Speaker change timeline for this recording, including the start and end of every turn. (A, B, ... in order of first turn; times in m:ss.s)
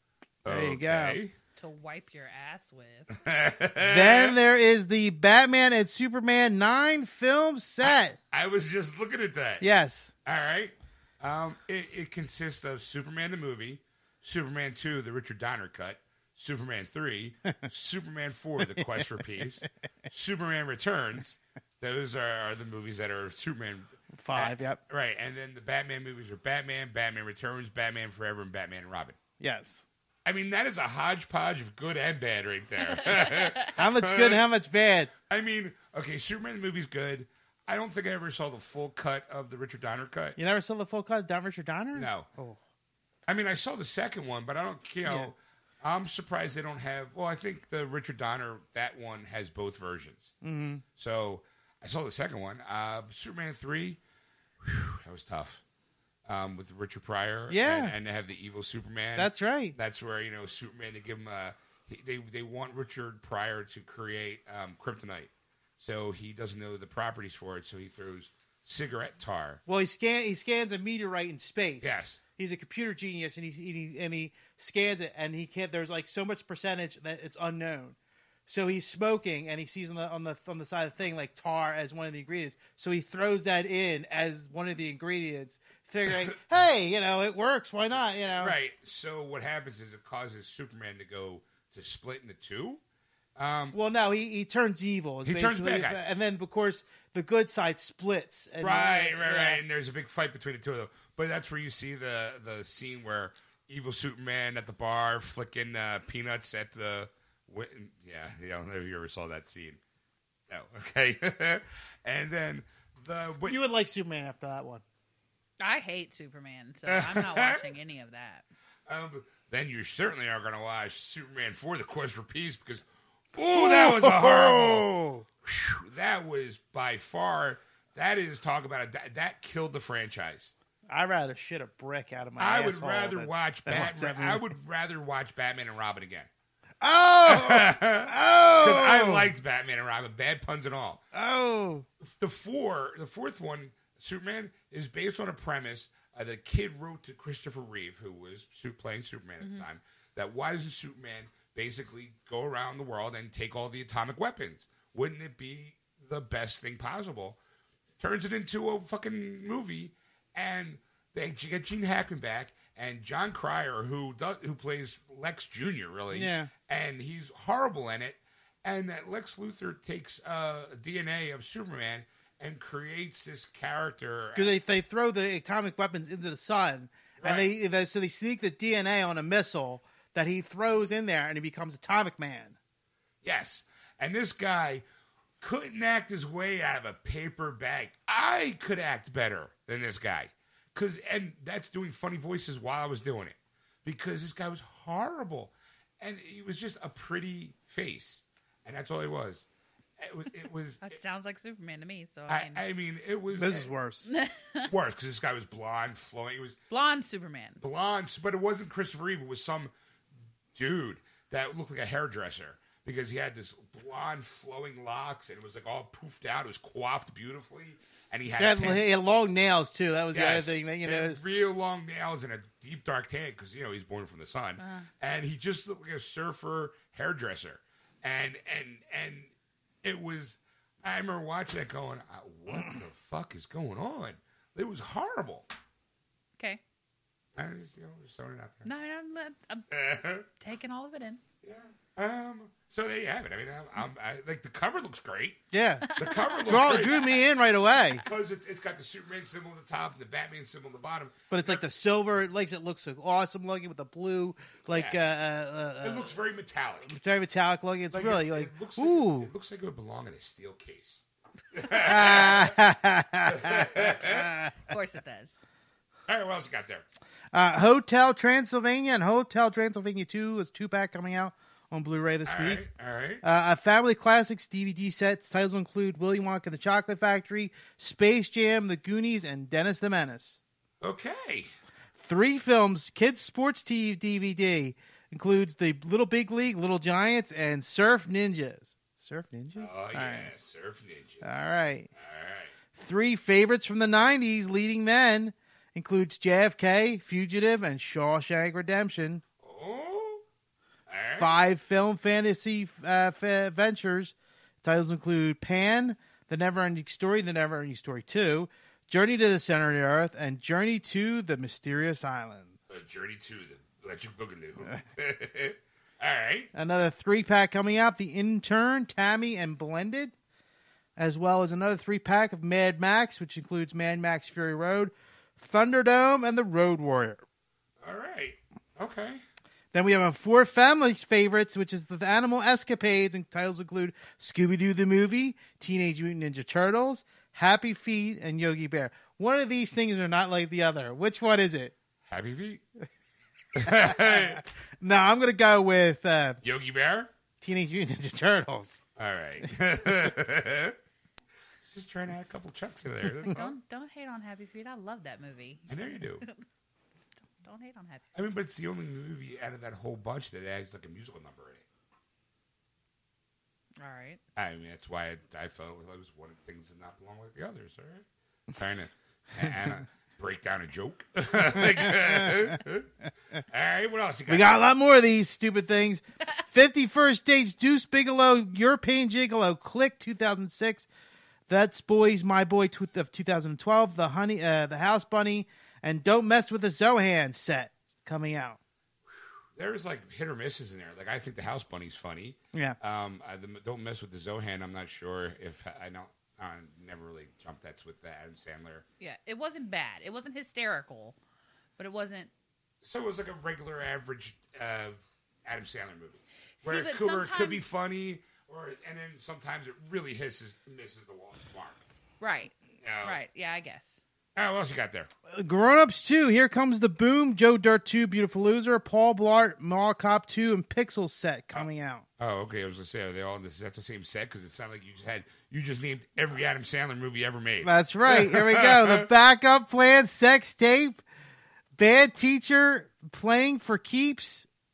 0:00.4-0:01.3 A
0:00.4-0:01.2 B
0:01.6-0:03.1 C
0:03.1-0:04.4 A
0:03.8-0:08.2 B
0:07.8-0:09.6 A
0:09.6-0:10.1 B
0:10.2-0:29.2 A
0:18.7-0:19.6 B
0:24.1-0:24.8 B
0:29.4-0:29.8 B
0:30.2-0:34.4 A
0:33.7-0:35.1 B
0:35.3-0:40.4 A
0:40.4-0:42.6 B
0:41.9-0:42.3 A
0:43.3-0:50.3 A
0:45.0-0:45.3 B
0:50.4-0:50.8 B
0:51.0-0:54.0 A
0:54.6-0:55.6 A
0:56.2-1:09.6 A
0:57.5-0:57.9 B
0:59.2-0:59.8 B
1:09.7-1:18.0 B
1:11.8-1:12.2 A
1:18.5-1:28.6 B
1:28.4-1:32.8 A
1:33.4-1:33.8 A
1:33.7-1:39.6 B
1:35.2-1:36.0 A
1:38.6-1:49.8 A
1:50.5-1:53.6 A
1:53.4-1:54.8 B
1:55.6-1:58.4 C
1:56.9-1:57.7 A
1:58.9-2:04.9 A
2:03.5-2:05.2 B
2:05.4-2:10.5 A
2:10.9-2:14.5 B
2:12.4-2:16.3 A
2:16.8-2:19.3 B
2:17.2-2:21.0 A
2:21.1-2:21.9 B
2:22.0-2:37.4 A
2:38.0-2:54.6 A
2:46.1-2:46.5 B
2:54.3-3:02.6 B
2:57.2-2:57.5 A
3:03.2-3:04.8 A
3:05.4-3:19.5 A
3:20.0-3:21.0 A
3:20.8-3:22.6 C
3:22.3-3:23.7 A
3:23.3-3:24.1 B
3:24.1-3:24.7 C
3:24.6-3:26.6 A
3:26.7-3:27.6 C
3:27.6-3:29.7 A
3:30.5-3:38.9 A
3:38.4-3:41.2 B
3:40.1-3:49.3 A
3:44.6-3:44.9 C
3:49.8-3:55.5 A
3:57.4-3:58.7 A
3:58.6-3:59.7 C
3:59.7-4:00.2 A
4:00.4-4:01.2 C
4:01.4-4:05.4 A
4:05.5-4:05.9 B
4:05.9-4:07.1 C
4:05.9-4:07.2 A
4:06.4-4:08.0 B
4:08.0-4:11.6 A
4:11.3-4:16.1 B
4:14.7-4:15.0 A
4:15.8-4:17.0 A
4:16.9-4:19.3 B
4:17.9-4:22.6 A
4:21.8-4:24.6 B
4:23.2-4:24.3 A
4:24.6-4:25.3 C
4:26.1-4:26.8 A
4:27.3-4:32.6 B
4:32.2-4:33.2 A
4:33.2-4:40.4 B
4:40.8-4:41.5 A
4:42.0-4:50.3 B
4:49.6-4:51.3 A
4:51.2-4:51.9 B
4:51.9-4:52.5 A
4:52.7-4:59.2 B
4:59.4-5:00.2 A
5:00.9-5:01.4 A
5:01.0-5:12.5 B
5:12.7-5:16.5 A
5:16.5-5:20.1 B
5:21.0-5:27.2 B
5:27.8-5:29.2 A
5:29.7-5:41.7 B
5:42.1-5:42.6 A
5:43.5-5:44.4 A
5:43.6-5:46.4 B
5:46.4-5:47.1 A
5:47.4-5:48.8 B
5:49.0-5:50.8 A
5:51.6-5:53.6 A
5:53.2-5:56.4 C
5:55.7-5:56.2 A
5:57.4-5:58.0 C
5:58.1-6:01.6 A
6:03.8-6:04.2 C
6:04.3-6:14.6 A
6:14.3-6:20.9 B
6:21.5-6:28.6 B
6:29.5-6:38.8 A
6:32.5-6:32.8 B
6:39.0-6:41.2 C
6:41.8-6:42.3 C
6:42.8-6:51.8 A
6:46.6-6:47.6 C
6:52.2-6:54.0 C
6:52.8-6:53.2 A
6:54.3-6:55.1 A
6:55.3-7:02.0 B
7:02.2-7:09.1 A
7:07.6-7:11.0 B
7:11.8-7:14.5 B